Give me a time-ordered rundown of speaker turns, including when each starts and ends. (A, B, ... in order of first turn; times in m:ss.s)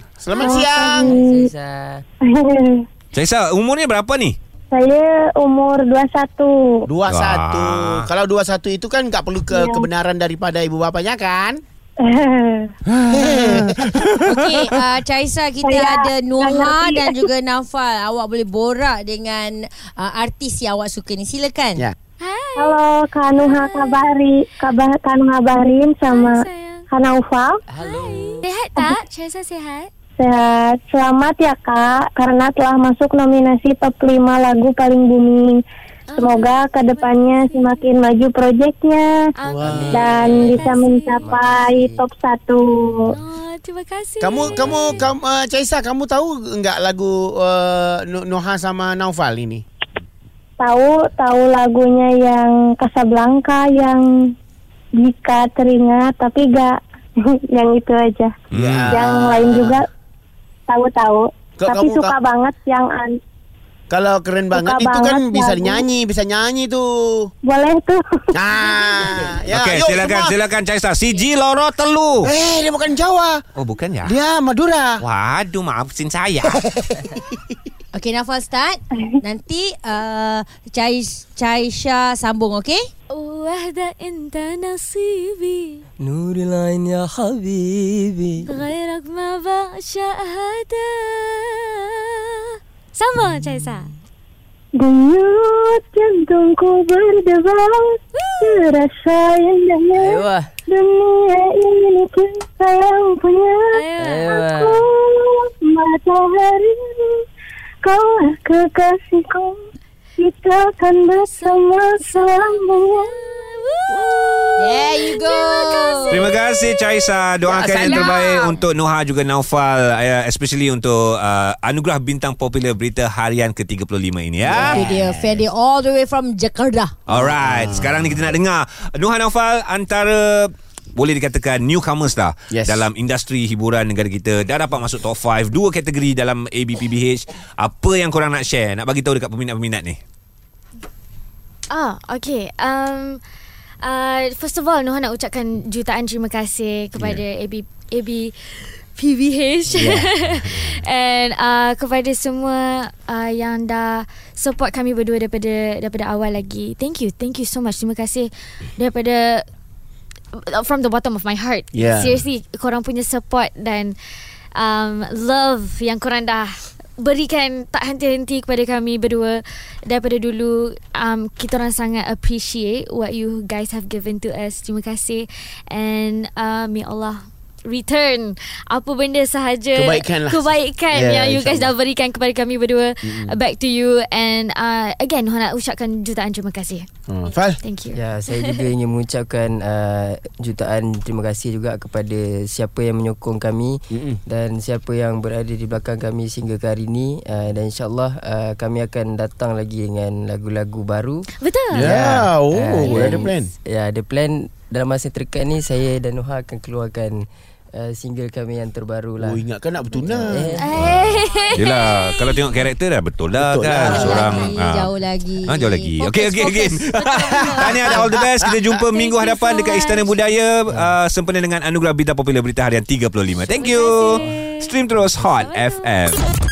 0:00.2-0:01.2 A
0:00.4-0:01.5 B
0:01.0-0:02.0 C
0:02.2-0:02.8 B
0:03.1-0:04.4 D
0:04.7-0:06.9 B
0:06.9-0:11.6 A
0:07.1-0:08.1 D
0:09.5-0:09.9 B
0:12.0-0:12.7 B
0:12.9-0:14.6 D
0:13.1-0:13.8 A
0:14.2-0:14.8 E
0:14.7-0:21.8 F
0:15.6-0:17.3 B
0:22.2-0:22.8 E
0:22.6-0:27.6 B
0:23.3-0:24.1 E
0:26.1-0:26.9 E
0:27.7-0:28.5 C
0:27.8-0:29.9 E
0:28.8-0:29.0 B
0:30.2-0:35.6 B
0:36.1-0:37.9 E
0:36.2-0:39.1 B
0:39.4-0:41.4 E
0:39.5-0:40.1 A
0:39.5-0:42.0 C
0:39.9-0:43.1 B
0:43.1-0:45.0 E
0:44.2-0:49.6 A
0:44.5-0:45.1 C
0:50.6-0:54.0 B
0:55.0-0:56.8 B
0:57.5-0:58.4 B
0:58.5-0:59.0 D
0:58.5-0:59.8 A
0:58.9-0:59.9 B
1:00.7-1:03.2 B
1:01.6-1:02.2 A
1:03.9-1:07.3 A
1:04.5-1:05.9 B
1:07.5-1:08.0 B
1:08.3-1:10.4 A
1:08.7-1:09.5 E
1:09.5-1:12.3 D
1:12.2-1:13.4 A
1:13.6-1:14.2 D
1:14.0-1:15.0 A
1:15.0-1:16.6 D
1:16.7-1:17.2 A
1:17.9-1:22.9 F
1:23.1-1:25.8 E
1:26.0-1:28.5 C
1:28.5-1:32.2 E
1:32.9-1:33.9 E
1:34.8-1:43.9 B
1:38.2-1:38.7 E
1:40.0-1:40.5 C
1:43.7-1:44.5 E
1:44.0-1:44.9 C
1:44.5-1:47.2 B
1:47.8-1:49.6 B
1:50.2-1:53.1 B
1:51.3-1:57.2 E
1:53.9-1:56.3 F
1:56.1-2:04.8 D
1:57.5-1:58.1 A
1:57.8-1:58.5 E
2:04.4-2:05.4 A
2:04.5-2:07.0 F
2:07.1-2:20.0 D
2:07.1-2:08.3 A
2:12.5-2:12.9 A
2:21.7-2:23.2 E
2:23.8-2:39.4 E
2:27.0-2:27.2 A
2:29.7-2:30.7 A
2:40.4-2:44.0 E
2:41.7-2:42.2 A
2:44.6-3:06.9 E
2:59.7-3:01.7 A
3:03.0-3:03.4 A
3:07.1-3:07.6 A
3:07.6-3:08.5 E
3:07.9-3:27.2 C
3:13.9-3:14.2 A
3:21.4-3:21.9 E
3:21.7-3:23.5 A
3:27.7-3:29.4 C
3:29.2-3:30.6 A
3:30.0-3:32.7 E
3:30.0-3:31.0 C
3:31.5-3:34.9 D
3:33.3-3:34.4 A
3:33.7-3:35.9 F
3:35.5-3:46.2 D
3:36.0-3:38.0 E
3:37.2-3:38.7 A
3:38.8-3:40.3 E
3:43.5-3:46.1 E